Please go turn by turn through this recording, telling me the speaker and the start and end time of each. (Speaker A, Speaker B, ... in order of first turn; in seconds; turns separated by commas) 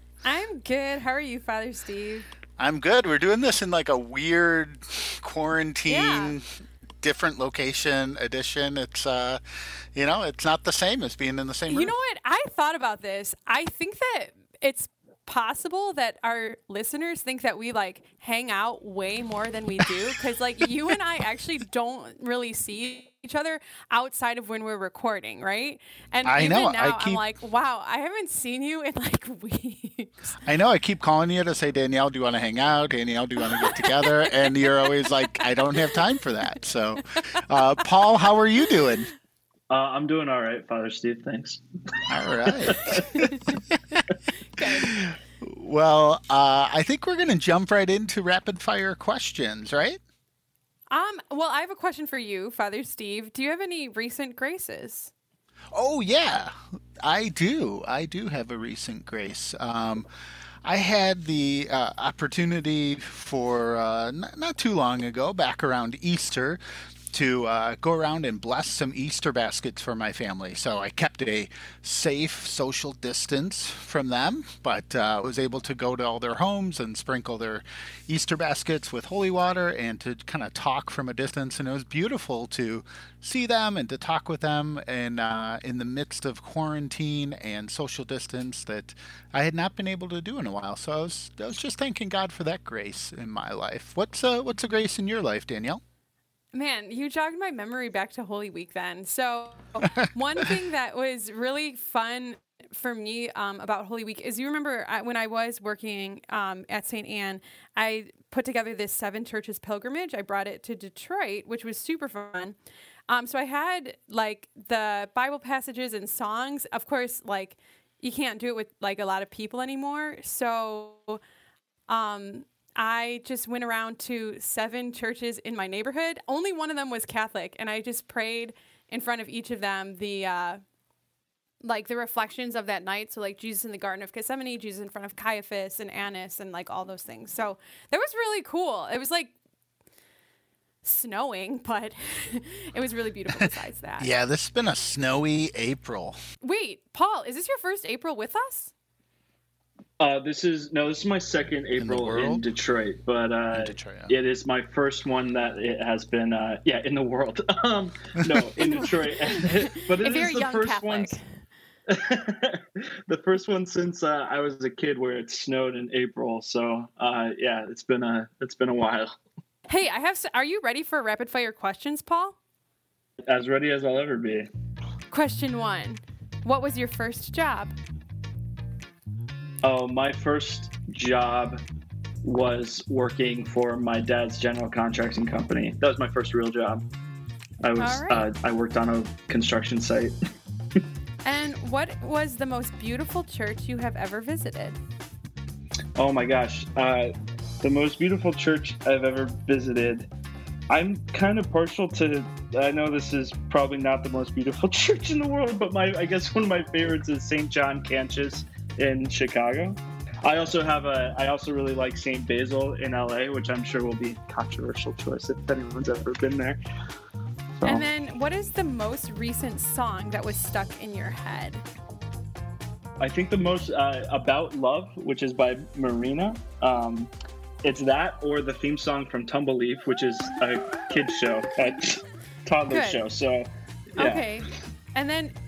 Speaker A: 0.2-2.3, Speaker B: 2.6-6.5, Speaker A: 5.9-6.4, Speaker B: 7.0-9.4, Speaker B: 9.9-11.9, Speaker A: 11.7-30.4, Speaker B: 26.2-27.2, Speaker B: 30.4-39.1, Speaker A: 33.6-34.1, Speaker C: 39.7-43.1, Speaker B: 42.1-43.1, Speaker A: 44.6-44.9, Speaker B: 44.6-50.0, Speaker A: 50.9-55.1, Speaker B: 55.7-60.1, Speaker B: 60.6-66.6, Speaker B: 67.1-95.8, Speaker A: 96.5-112.6, Speaker A: 113.1-121.2, Speaker A: 121.9-130.6, Speaker A: 131.6-139.3, Speaker A: 140.8-144.1, Speaker B: 144.0-146.2, Speaker A: 146.4-148.7, Speaker C: 150.0-161.2, Speaker B: 151.8-152.5, Speaker B: 153.5-154.2, Speaker A: 158.6-161.2, Speaker C: 161.9-169.2, Speaker A: 169.7-172.4, Speaker C: 173.2-174.5, Speaker A: 175.1-177.7, Speaker C: 179.6-181.6, Speaker C: 182.2-186.8, Speaker C: 187.6-190.2, Speaker A: 187.8-188.3, Speaker A: 191.2-194.8, Speaker C: 196.0-200.1, Speaker C: 200.7-216.6, Speaker C: 217.6-217.8, Speaker A: 217.6-221.6, Speaker C: 223.0-227.1, Speaker C: 227.6-234.3, Speaker A: 232.7-233.0, Speaker A: 234.0-235.3